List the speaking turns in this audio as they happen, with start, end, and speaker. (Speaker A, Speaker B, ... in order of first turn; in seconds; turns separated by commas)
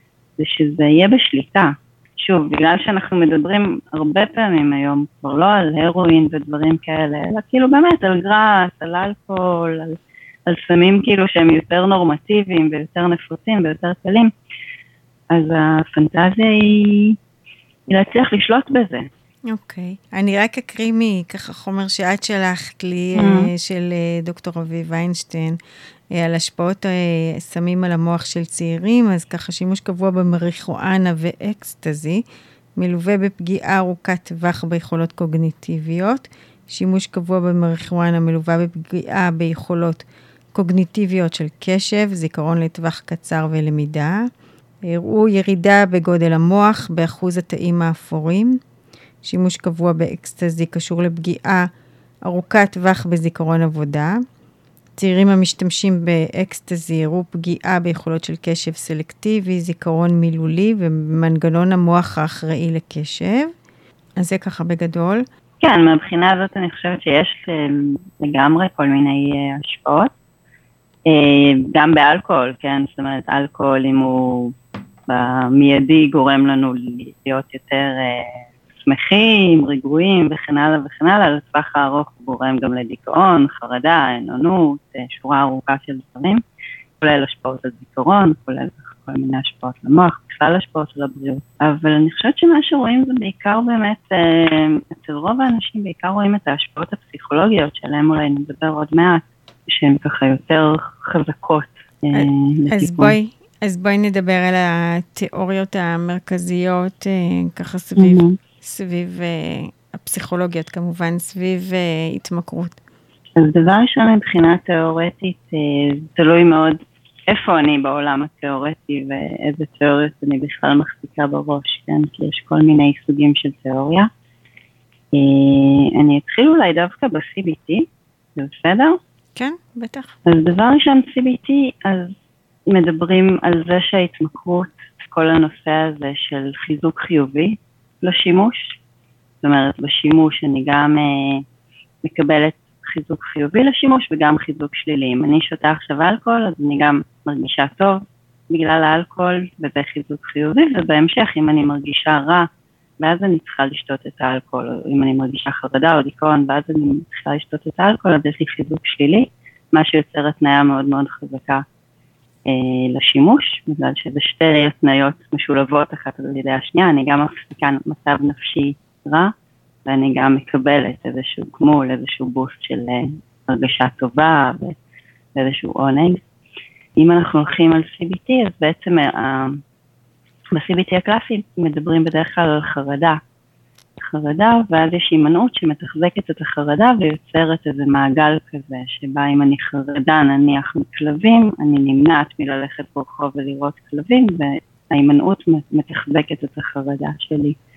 Speaker A: 0.4-14.3, Speaker A: 15.3-17.2, Speaker A: 17.9-19.1, Speaker B: 19.5-25.6, Speaker A: 23.2-23.5, Speaker B: 26.1-32.2, Speaker B: 32.8-44.3, Speaker B: 44.8-48.6, Speaker B: 49.2-51.7, Speaker B: 52.2-54.2, Speaker B: 55.0-63.5, Speaker B: 64.2-65.2, Speaker A: 65.6-70.1, Speaker A: 71.1-74.5, Speaker A: 75.1-86.4, Speaker A: 87.0-103.2, Speaker B: 102.1-112.8, Speaker A: 108.0-108.4, Speaker A: 113.4-124.1, Speaker A: 125.1-129.0, Speaker B: 129.3-130.1, Speaker A: 130.2-132.1, Speaker A: 132.7-138.8, Speaker A: 139.4-141.4, Speaker A: 142.0-152.5, Speaker A: 153.0-161.6, Speaker A: 162.5-169.3, Speaker A: 169.8-174.8, Speaker A: 175.3-176.2, Speaker A: 177.0-179.6, Speaker A: 180.5-183.2, Speaker A: 184.0-197.6